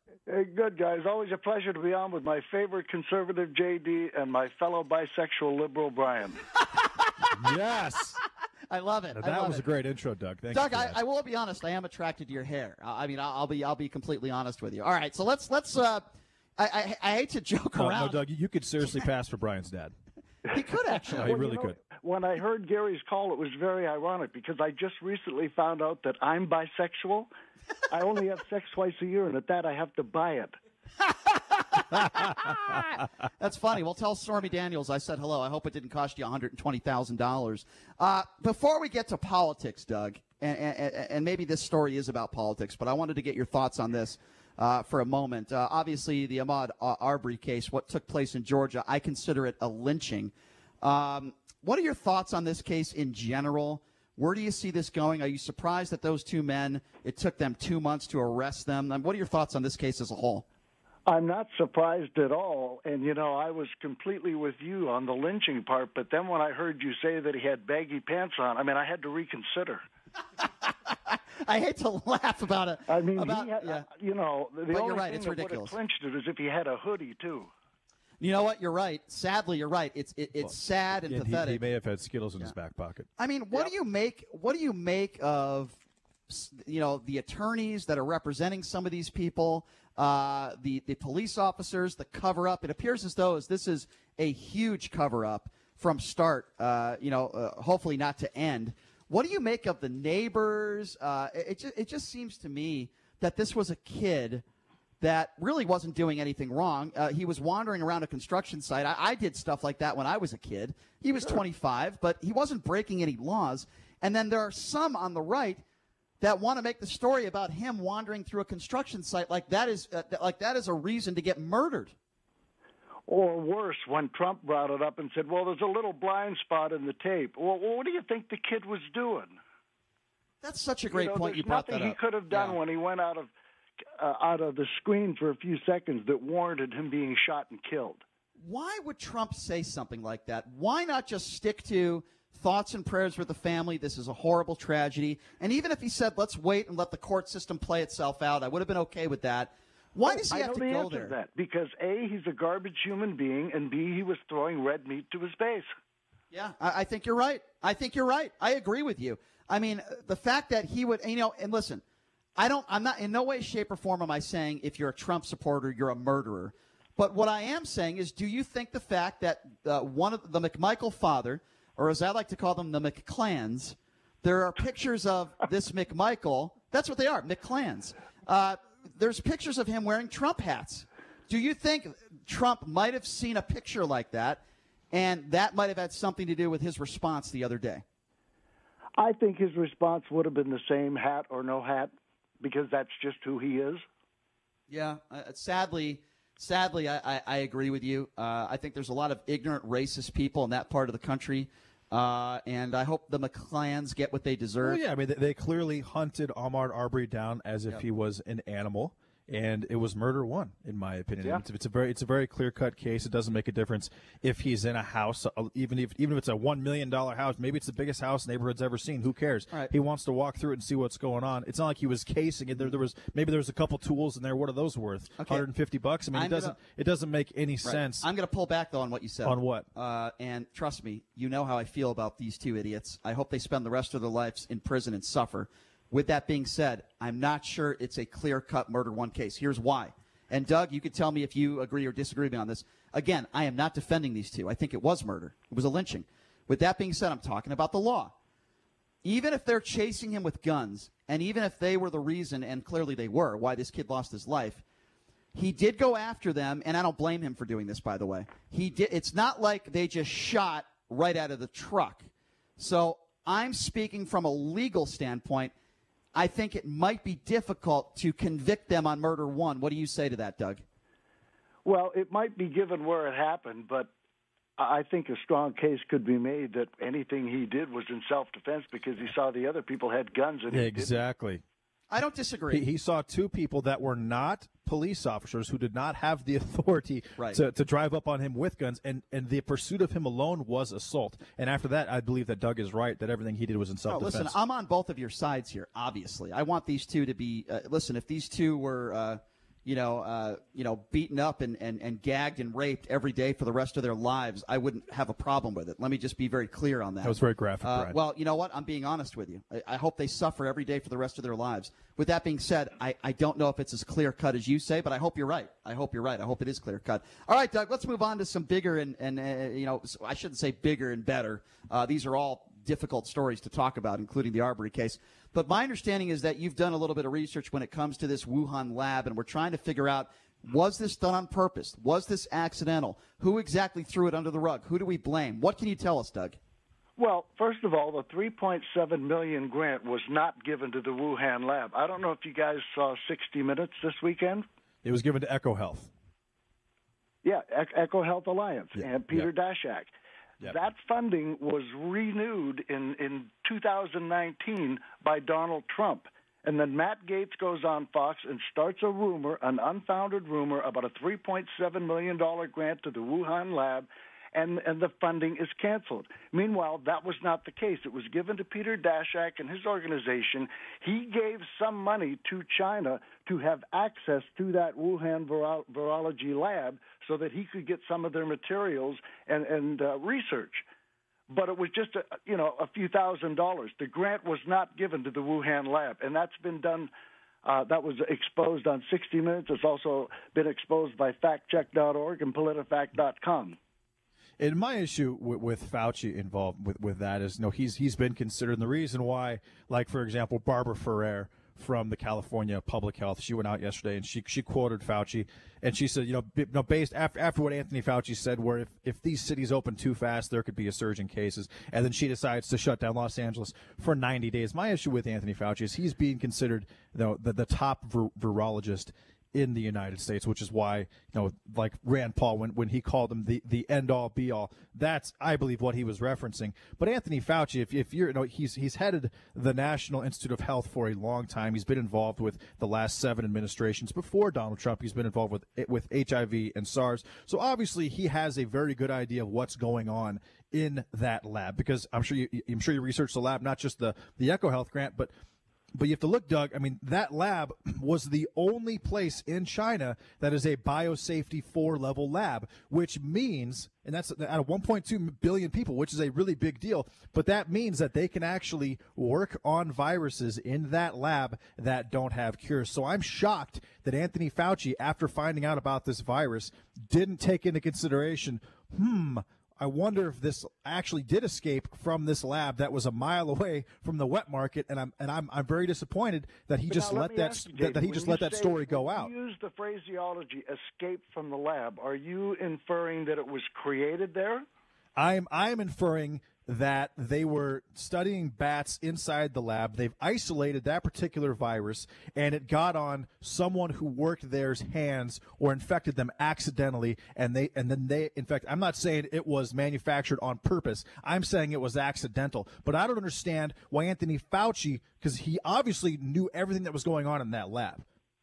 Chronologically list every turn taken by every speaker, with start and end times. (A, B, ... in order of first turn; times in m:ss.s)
0:00.3-0:06.4 A
0:06.6-0:07.3 B
0:07.3-0:08.2 C
0:08.7-0:09.6 B
0:09.1-0:11.0 C
0:10.5-0:16.0 B
0:16.6-0:18.2 B
0:17.8-0:19.9 C
0:20.5-0:27.3 A
0:20.5-0:21.3 B
0:21.1-0:21.8 C
0:27.9-0:30.6 A
0:31.2-1:00.4 B
1:01.1-1:09.8 A
1:10.4-1:13.9 B
1:12.9-1:17.5 A
1:14.7-1:15.7 B
1:18.2-1:21.6 B
1:21.0-1:23.1 C
1:23.2-1:44.4 B
1:45.0-1:55.6 B
1:56.2-2:01.9 B
2:03.1-2:09.4 A
2:10.4-2:12.6 B
2:10.9-2:13.3 A
2:14.0-2:18.0 A
2:18.4-2:31.1 B
2:30.0-2:35.7 A
2:36.3-2:41.8 B
2:42.4-3:04.4 B
3:04.9-3:07.8 B
3:09.0-3:13.8 A
3:14.7-3:24.8 B
3:24.6-3:48.0 C
3:45.2-3:45.4 B
3:46.1-3:46.6 B
3:47.6-4:08.1 B
3:49.2-3:49.7 C
4:09.0-4:14.6 B
4:15.3-4:25.5 B
4:26.1-4:30.6 B
4:31.6-4:33.9 A
4:34.6-4:41.0 A
4:40.5-4:41.4 C
4:41.9-4:42.7 B
4:42.5-4:54.4 C
4:47.2-4:47.4 B
4:53.9-5:36.4 B
5:07.0-5:08.0 C
5:37.0-5:44.4 A
5:44.8-5:45.9 C
5:47.2-6:20.6 A
5:48.8-5:49.3 C
6:21.3-6:26.9 A
6:27.4-6:33.6 A
6:34.4-7:25.1 C
7:25.7-7:59.1 C
7:56.7-8:04.4 A
8:05.0-8:27.8 C